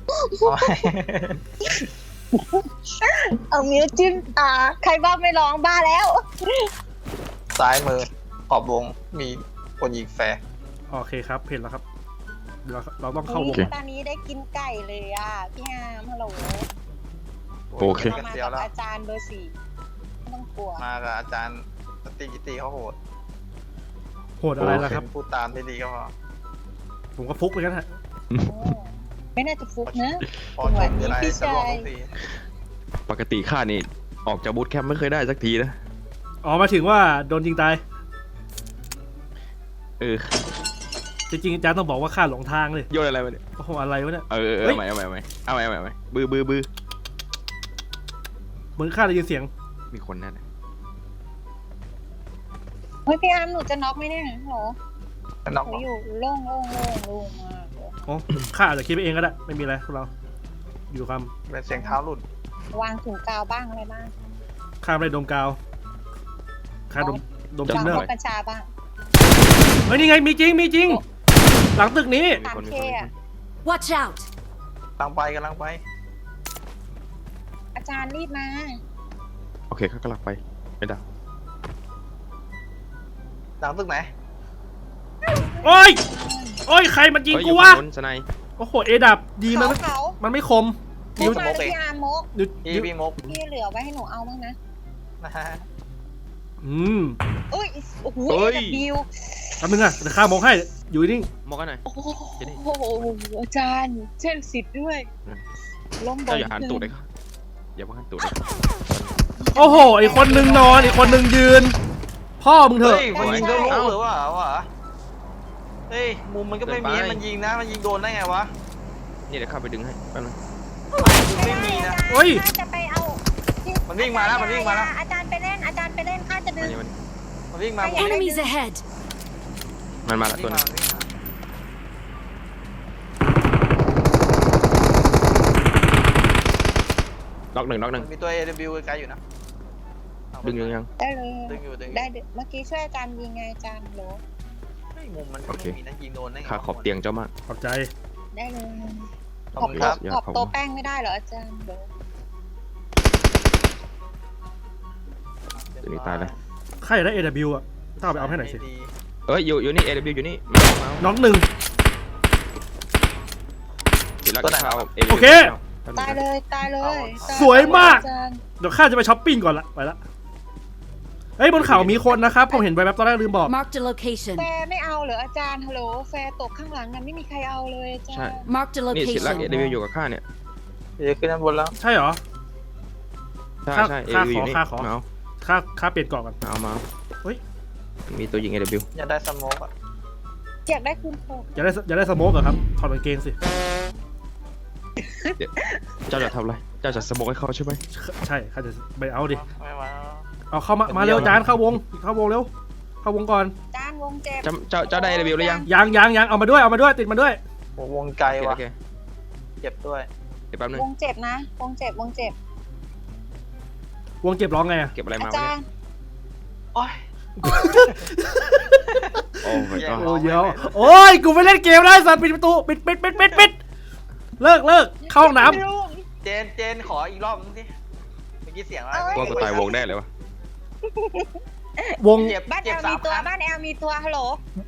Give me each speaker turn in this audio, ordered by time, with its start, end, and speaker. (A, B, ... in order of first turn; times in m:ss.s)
0:00.1-0:00.7 A
0:00.4-0:01.4 B
0:01.7-0:06.7 A
0:07.6-0:10.4 B
0:10.9-0:11.8 C
0:12.6-0:13.7 C
0:13.2-0:16.7 A
0:17.7-0:18.7 B
0:17.8-0:18.2 D
0:18.0-0:19.6 A
0:20.3-0:20.8 A
0:20.8-0:23.0 B
0:24.4-0:25.0 C
0:24.6-0:25.0 D
0:24.6-0:26.1 B
0:27.2-0:27.9 C
0:28.4-0:31.9 A
0:29.9-0:32.1 B
0:33.1-0:35.8 D
0:36.4-0:37.8 C
0:40.0-0:40.4 D
0:41.3-0:42.9 C
0:42.9-0:43.4 D
0:43.6-0:44.8 C
0:44.3-0:46.7 D
0:48.8-0:49.5 C
0:49.9-0:50.4 D
0:53.1-0:54.8 A
0:55.5-0:55.9 B
0:55.6-0:57.9 A
0:58.1-1:00.1 C
1:00.9-1:01.3 C
1:01.5-1:02.2 B
1:01.7-1:02.0 A
1:02.7-1:04.1 A
1:04.8-1:05.6 C
1:06.9-1:08.1 C
1:06.9-1:08.7 A
1:07.7-1:08.1 D
1:09.9-1:11.0 C
1:11.8-1:12.4 C
1:12.3-1:13.1 D
1:12.4-1:13.1 A
1:13.6-1:14.2 E
1:15.0-1:15.8 B
1:17.8-1:18.8 A
1:19.7-1:21.0 D
1:23.6-1:24.1 B
1:25.2-1:26.6 A
1:25.6-1:26.0 C
1:26.7-1:27.8 C
1:27.3-1:28.3 D
1:28.6-1:31.5 C
1:29.5-1:30.2 A
1:31.2-1:31.8 B
1:31.2-1:32.3 A
1:32.3-1:32.9 C
1:32.6-1:33.2 B
1:33.2-1:34.6 A
1:35.2-1:35.6 B
1:36.6-1:37.2 C
1:37.5-1:39.6 A
1:38.3-1:38.9 D
1:39.6-1:41.3 C
1:41.4-1:41.8 D
1:41.9-1:45.1 A
1:46.0-1:46.9 A
1:46.3-1:47.1 D
1:47.8-1:48.4 D
1:49.4-1:51.3 A
1:49.6-1:51.8 C
1:52.4-1:53.2 C
1:52.8-1:54.7 B
1:53.1-1:53.8 A
1:53.2-1:54.0 D
1:55.9-1:58.5 B
1:56.6-1:57.2 D
1:59.3-2:00.4 D
2:00.9-2:06.8 A
2:01.0-2:02.0 B
2:02.1-2:02.4 C
2:03.9-2:04.9 B
2:06.6-2:07.0 D
2:07.5-2:08.2 B
2:07.8-2:08.6 A
2:08.0-2:08.8 E
2:10.0-2:10.6 D
2:10.2-2:11.1 B
2:17.5-2:18.1 D
2:18.0-2:19.2 B
2:20.3-2:20.8 B
2:20.4-2:20.9 D
2:21.0-2:24.2 A
2:21.5-2:22.1 B
2:25.0-2:26.9 B
2:25.5-2:25.8 D
2:26.4-2:27.3 D
2:27.5-2:27.9 C
2:28.3-2:31.9 A
2:29.5-2:30.0 B
2:29.6-2:30.5 D
2:35.5-2:36.4 B
2:35.8-2:36.3 D
2:36.8-2:38.6 C
2:38.1-2:38.9 B
2:39.3-2:41.1 D
2:41.0-2:41.5 C
2:44.2-2:46.2 D
2:44.4-2:44.9 B
2:45.1-2:45.5 C
2:46.0-2:48.4 A
2:46.8-2:48.0 B
2:47.3-2:48.0 C
2:48.6-2:50.0 C
2:51.4-2:53.6 C
2:51.6-2:52.0 D
2:52.1-2:52.7 A
2:53.5-2:54.5 E
2:54.4-2:58.5 A
2:58.1-3:00.2 D
2:58.5-2:59.5 E
2:59.2-2:59.7 B
3:01.0-3:01.8 B
3:01.8-3:02.2 C
3:03.6-3:05.0 D
3:03.7-3:06.4 C
3:06.4-3:06.8 D
3:08.1-3:08.9 D
3:09.0-3:09.7 B
3:10.7-3:11.7 A
3:11.6-3:13.4 C
3:15.0-3:16.3 A
3:16.1-3:17.8 D
3:17.9-3:19.4 C
3:19.3-3:20.3 B
3:20.5-3:22.5 C
3:20.9-3:21.4 B
3:21.1-3:21.4 D
3:23.0-3:23.5 C
3:23.7-3:25.7 A
3:24.4-3:25.7 D
3:25.7-3:27.4 C
3:27.8-3:28.6 B
3:28.3-3:28.8 D
3:29.6-3:30.1 B
3:30.5-3:30.9 D
3:30.7-3:32.4 A
3:34.2-3:34.9 C
3:34.9-3:35.6 D
3:35.2-3:35.7 A
3:36.8-3:37.0 B
3:37.4-3:38.8 C
3:37.4-3:37.8 A
3:37.8-3:38.0 B
3:39.4-3:40.1 D
3:39.5-3:43.6 C
3:39.7-3:41.0 B
3:44.4-3:45.6 C
3:45.1-3:46.1 A
3:46.2-3:47.7 B
3:48.4-3:49.8 B
3:48.9-3:49.9 A
3:49.1-3:50.1 D
3:50.8-3:54.4 A
3:52.0-3:52.4 C
3:52.2-3:53.3 B